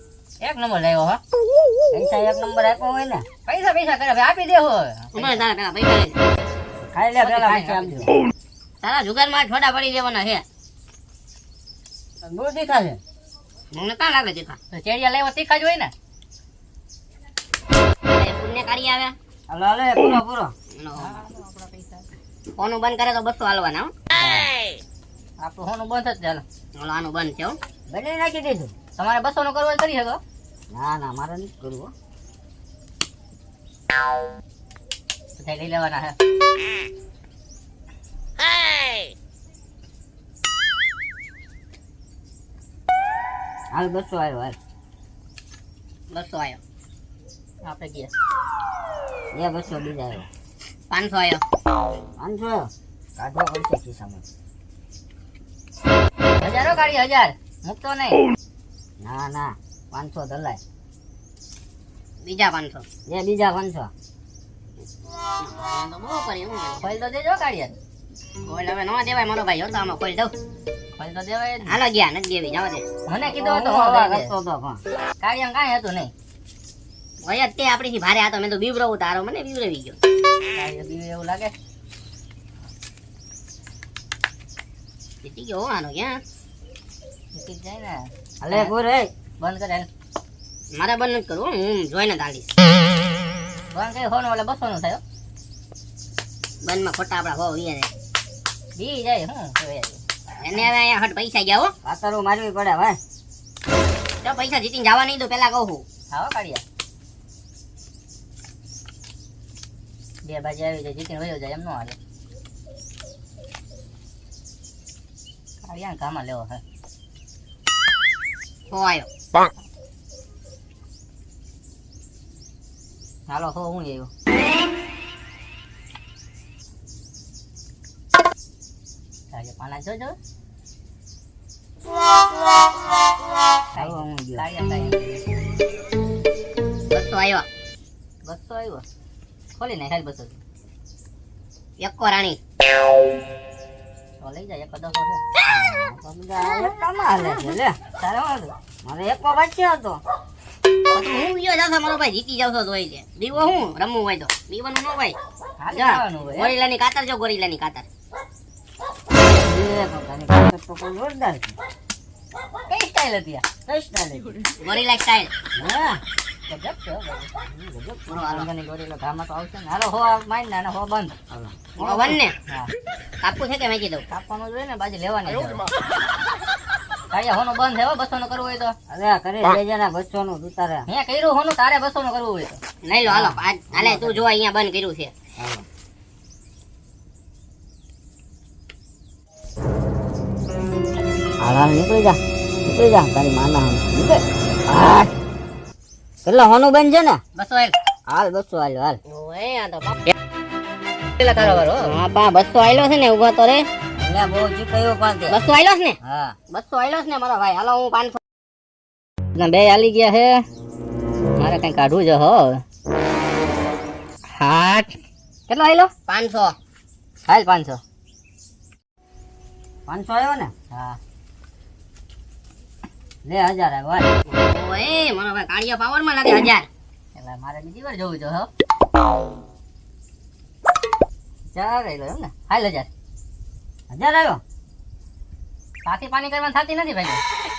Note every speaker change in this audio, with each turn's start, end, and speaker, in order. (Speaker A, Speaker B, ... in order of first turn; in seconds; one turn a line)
Speaker A: 0.4-1.2
Speaker B: 1.9-3.3
Speaker A: 3.5-5.4
Speaker C: 5.1-6.2
Speaker B: 6.8-8.1
Speaker A: 7.2-8.1
Speaker C: 8.8-10.4
Speaker B: 12.2-13.0
Speaker C: 13.7-14.6
Speaker A: 14.7-15.9
Speaker C: 18.1-19.1
Speaker B: 19.5-20.5
Speaker C: 20.7-21.2
Speaker A: 21.0-22.1
Speaker C: 22.6-23.9
Speaker B: 24.1-24.5
Speaker A: 25.4-26.4
Speaker C: 26.8-27.6
Speaker B: 27.9-28.7
Speaker A: 29.0-30.2
Speaker B: 30.7-31.9
Speaker A: 35.4-36.1
Speaker B: 43.7-44.6
Speaker C: 46.1-46.6
Speaker A: 47.6-48.1
Speaker B: 49.3-50.3
Speaker C: 50.9-51.4
Speaker B: 52.2-54.2
Speaker A: 56.4-58.2
Speaker B: 59.0-60.6
Speaker C: 62.2-62.9
Speaker B: 63.1-63.9
Speaker C: 65.4-67.0
Speaker A: 66.8-67.8
Speaker C: 68.5-70.3
Speaker A: 71.0-71.8
Speaker C: 71.7-72.9
Speaker A: 73.1-74.3
Speaker B: 73.2-74.8
Speaker A: 75.2-76.1
Speaker C: 77.2-80.0
Speaker A: 80.6-81.5
Speaker C: 85.2-86.2
Speaker A: 87.3-88.7
Speaker B: 88.4-89.1
Speaker A: 89.4-89.9
Speaker C: 90.7-92.5
Speaker A: 93.7-95.0
Speaker C: 96.6-97.9
Speaker A: 98.8-100.0
Speaker C: 100.4-101.7
Speaker B: 101.8-103.0
Speaker C: 104.2-105.8
Speaker A: 106.1-106.6
Speaker A: 110.2-112.0
Speaker A: 115.6-116.6
Speaker C: 118.7-119.1
Speaker A: 123.3-124.1
Speaker A: 129.3-130.2
Speaker A: 133.7-135.2
Speaker B: 133.7-134.5
Speaker C: 136.9-137.5
Speaker A: 138.2-138.8
Speaker A: 139.6-140.4
Speaker C: 141.8-142.4
Speaker A: 144.2-145.2
Speaker B: 145.4-147.8
Speaker A: 147.2-148.5
Speaker B: 148.8-150.0
Speaker C: 150.9-155.2
Speaker A: 155.6-156.6
Speaker C: 155.7-157.9
Speaker B: 159.2-161.6
Speaker A: 162.7-163.4
Speaker B: 163.7-164.4
Speaker C: 164.6-165.3
Speaker B: 165.6-166.0
Speaker A: 166.5-167.3
Speaker B: 167.5-168.3
Speaker C: 168.1-168.5
Speaker A: 168.2-171.1
Speaker B: 171.3-172.2
Speaker C: 171.8-172.4
Speaker C: 173.2-174.0
Speaker A: 174.1-175.7
Speaker A: 177.1-178.8
Speaker B: 178.9-180.9
Speaker A: 180.9-182.6
Speaker C: 182.8-185.1
Speaker B: 183.1-184.2
Speaker B: 185.4-185.7
Speaker B: 191.4-195.1
Speaker B: 196.2-197.2
Speaker A: 197.4-197.8
Speaker B: 198.1-199.0
Speaker C: 199.1-200.1
Speaker A: 201.2-202.0
Speaker C: 201.4-203.7
Speaker B: 203.9-205.4
Speaker C: 205.3-206.0
Speaker B: 206.0-206.4
Speaker C: 206.5-208.2
Speaker A: 209.4-210.5
Speaker A: 211.4-212.6
Speaker A: 214.3-215.0
Speaker A: 215.5-215.9
Speaker C: 216.1-216.6
Speaker A: 217.3-217.8
Speaker B: 219.9-220.5
Speaker A: 220.7-221.0
Speaker B: 223.2-224.1
Speaker C: 224.3-226.7
Speaker A: 227.2-228.5
Speaker A: 231.5-232.9
Speaker B: 233.9-234.4
Speaker A: 235.8-237.2